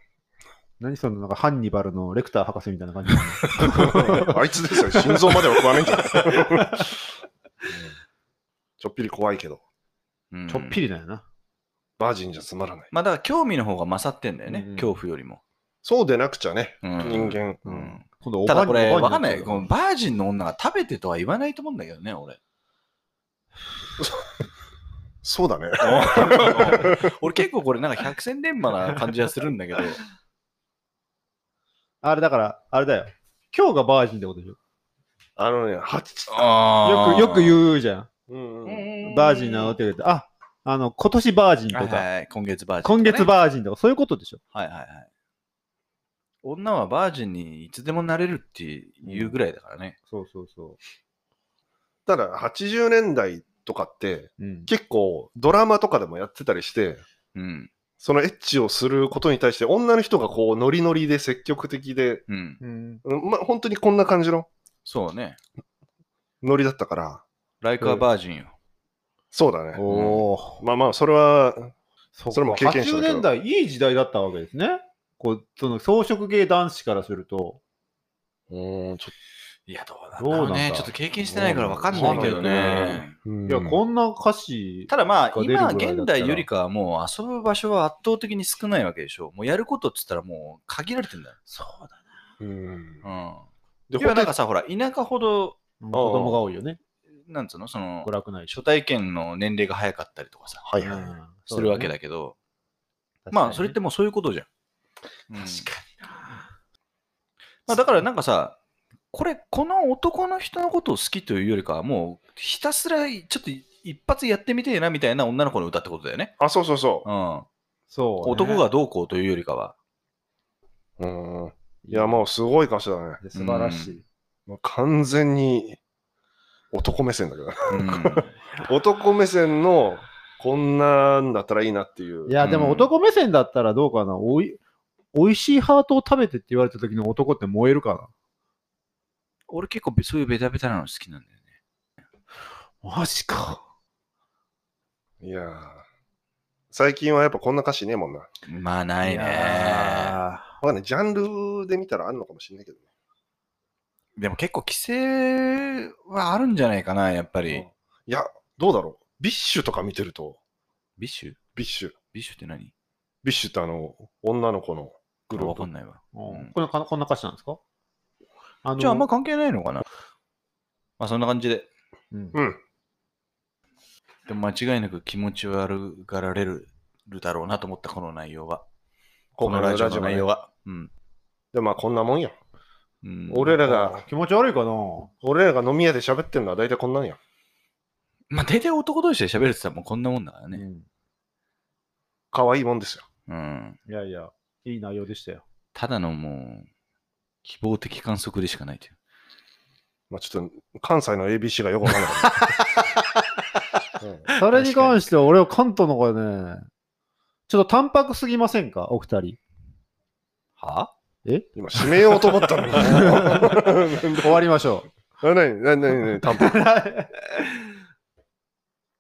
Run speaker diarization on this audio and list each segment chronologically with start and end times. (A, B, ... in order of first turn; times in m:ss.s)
0:00.8-0:04.4 A
0:03.6-0:06.8 B
0:05.0-0:05.3 A
0:06.3-0:06.9 A
0:08.8-0:09.6 B
0:10.3-0:10.8 C
0:10.5-0:11.2 A
0:12.0-0:12.9 B
0:12.9-0:15.4 C
0:14.5-0:15.0 A
0:15.8-0:17.6 B
0:16.8-0:22.4 C
0:17.6-0:19.7 A
0:25.2-0:27.0 B
0:25.8-0:30.0 C
0:32.0-0:34.6 A
0:35.4-0:36.6 B
0:36.3-0:37.7 C
0:36.8-0:38.1 A
0:38.3-0:38.9 B
0:38.7-0:39.8 C
0:39.0-0:42.1 A
0:41.7-0:43.3 C
0:42.8-0:44.4 A
0:44.5-0:45.1 C
0:46.4-0:50.0 C
0:49.0-0:49.4 A
0:50.1-0:50.8 A
0:52.1-0:57.0 B
0:54.4-0:54.7 A
0:57.4-0:57.7 C
0:58.0-1:02.2 B
1:02.3-1:02.6 C
1:02.6-1:03.0 A
1:03.0-1:04.5 B
1:04.8-1:05.4 C
1:06.4-1:07.2 B
1:07.6-1:08.5 C
1:09.3-1:09.9 B
1:09.8-1:10.6 A
1:09.9-1:10.2 C
1:10.6-1:11.7 B
1:12.2-1:17.6 A
1:12.3-1:13.3 B
1:18.5-1:19.1 B
1:19.7-1:23.2 C
1:20.2-1:22.9 A
1:21.3-1:23.8 B
1:23.5-1:26.5 A
1:24.9-1:31.4 C
1:31.5-1:32.1 A
1:32.4-1:33.0 B
1:33.0-1:33.4 C
1:33.9-1:34.3 B
1:34.0-1:35.6 C
1:35.8-1:36.8 A
1:35.9-1:36.4 B
1:37.3-1:40.6 C
1:38.0-1:38.6 A
1:40.6-1:41.1 B
1:40.8-1:41.9 A
1:41.5-1:42.4 C
1:43.2-1:43.8 A
1:43.3-1:44.5 C
1:45.3-1:45.7 C
1:45.4-1:46.1 A
1:47.7-1:48.6 C
1:49.1-1:56.4 C
1:56.4-1:57.1 B
1:57.0-1:57.5 C
1:57.9-1:58.7 A
1:58.2-1:59.8 C
2:01.0-2:03.2 B
2:01.8-2:02.3 A
2:03.2-2:04.0 A
2:03.4-2:04.0 C
2:04.5-2:05.8 B
2:06.7-2:12.4 B
2:07.7-2:08.3 C
2:12.3-2:14.6 A
2:12.4-2:12.9 C
2:15.1-2:18.1 A
2:19.5-2:21.3 C
2:22.8-2:23.6 A
2:25.2-2:25.8 B
2:26.7-2:28.3 B
2:28.5-2:30.2 C
2:29.0-2:30.6 A
2:30.6-2:32.8 B
2:34.2-2:37.6 C
2:38.1-2:40.4 B
2:41.0-2:41.4 C
2:41.6-2:42.0 B
2:42.1-2:42.7 C
2:43.2-2:45.7 B
2:45.3-2:46.5 C
2:46.1-2:47.6 A
2:48.6-2:49.1 A
2:48.8-2:49.8 C
2:51.0-2:51.7 C
2:52.1-2:52.4 A
2:52.3-2:52.6 B
2:54.3-2:58.6 C
2:59.4-3:00.3 B
2:59.4-3:00.9 C
3:01.5-3:02.4 B
3:03.0-3:03.6 C
3:03.3-3:04.0 B
3:03.6-3:05.1 A
3:05.2-3:07.2 B
3:08.3-3:10.6 C
3:10.5-3:10.9 A
3:12.3-3:13.1 B
3:13.3-3:13.8 C
3:13.9-3:15.4 A
3:15.8-3:16.7 C
3:17.4-3:18.9 C
3:20.1-3:22.4 B
3:22.3-3:23.0 A
3:24.0-3:24.3 B
3:24.4-3:26.6 A
3:24.4-3:25.0 C
3:27.5-3:29.4 A
3:30.6-3:30.9 C
3:31.2-3:34.9 A
3:31.6-3:34.4 B
3:35.2-3:36.6 B
3:36.1-3:37.6 A